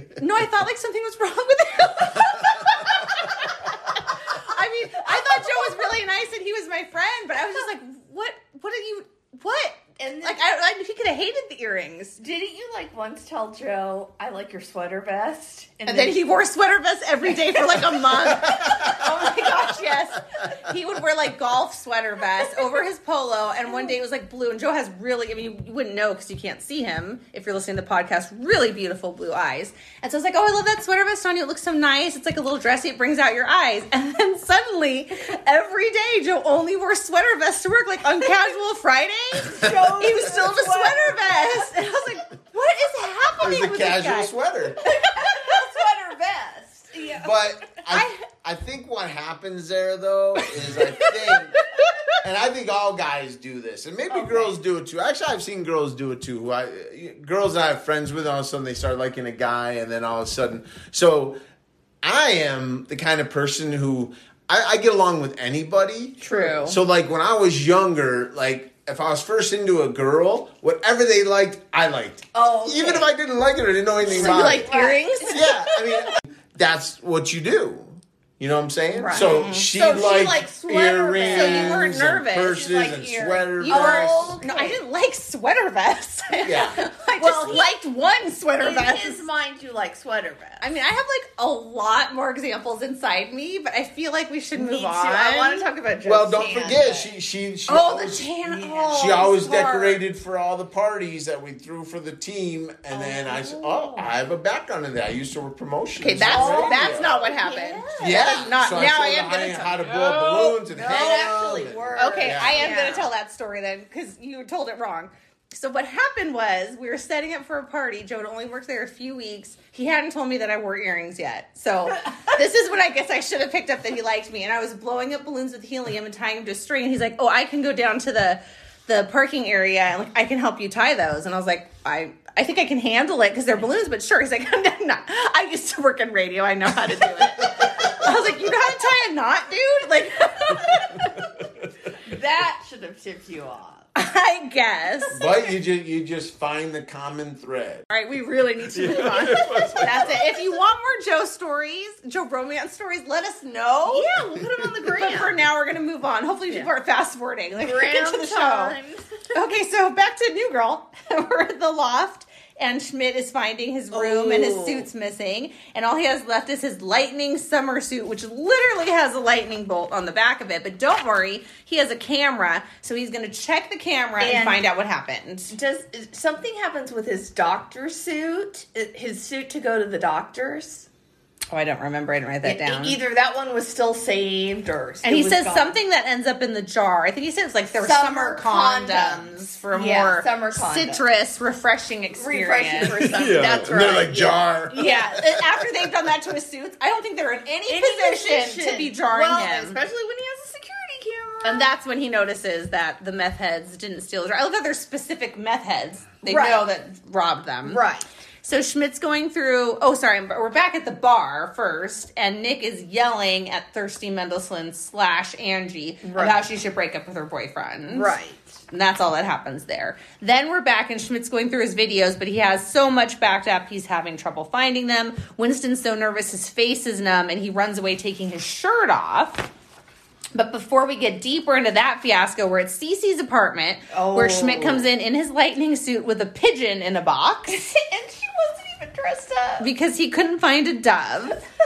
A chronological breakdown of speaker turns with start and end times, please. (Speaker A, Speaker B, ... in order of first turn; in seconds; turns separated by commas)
Speaker A: 0.1-12.2, Speaker B: 5.1-5.8, Speaker B: 10.0-10.4, Speaker B: 12.2-16.2, Speaker A: 15.8-44.3, Speaker B: 17.2-18.0, Speaker C: 18.5-18.9, Speaker B: 39.4-41.8, Speaker C: 43.4-44.8, Speaker B: 44.8-47.3, Speaker A: 44.9-45.4, Speaker C: 47.2-61.4, Speaker A: 47.9-48.2, Speaker B: 50.8-51.9, Speaker B: 54.1-54.5, Speaker C: 62.0-84.4, Speaker A: 66.2-66.8, Speaker B: 66.2-66.6, Speaker B: 72.3-73.1, Speaker B: 74.0-75.2, Speaker A: 74.1-76.0, Speaker B: 78.9-84.8, Speaker A: 79.1-79.7, Speaker A: 81.3-82.6, Speaker A: 83.6-89.2, Speaker C: 86.4-86.8, Speaker B: 87.2-87.8, Speaker B: 88.6-90.6, Speaker A: 90.6-95.7, Speaker B: 94.5-97.1, Speaker C: 96.0-98.3, Speaker A: 97.7-100.0, Speaker B: 98.4-99.3, Speaker C: 98.9-107.1, Speaker B: 102.9-104.1, Speaker A: 106.0-110.1, Speaker B: 106.2-108.5, Speaker C: 108.0-112.9, Speaker B: 109.8-113.1, Speaker A: 112.0-141.0, Speaker C: 137.6-137.8, Speaker B: 140.5-140.8, Speaker B: 142.0-143.9, Speaker A: 143.9-145.2, Speaker C: 145.1-147.9, Speaker A: 147.9-158.8, Speaker C: 148.7-150.3, Speaker B: 149.5-150.1, Speaker B: 153.8-155.3, Speaker B: 157.6-159.2, Speaker A: 159.3-175.5, Speaker B: 163.9-164.9, Speaker B: 174.2-174.6, Speaker B: 175.5-180.9, Speaker A: 181.5-183.0, Speaker B: 182.4-185.8, Speaker A: 185.0-193.1, Speaker B: 187.8-191.0, Speaker B: 192.2-195.4, Speaker C: 192.9-195.4, Speaker A: 194.8-199.8, Speaker B: 197.7-201.7, Speaker A: 201.4-207.8, Speaker B: 206.2-206.7, Speaker B: 207.6-208.1, Speaker A: 208.4-218.2, Speaker B: 216.0-216.5, Speaker B: 217.9-218.6, Speaker A: 218.7-229.5, Speaker A: 230.3-237.6, Speaker B: 233.9-234.9, Speaker B: 237.5-239.7, Speaker A: 239.6-241.4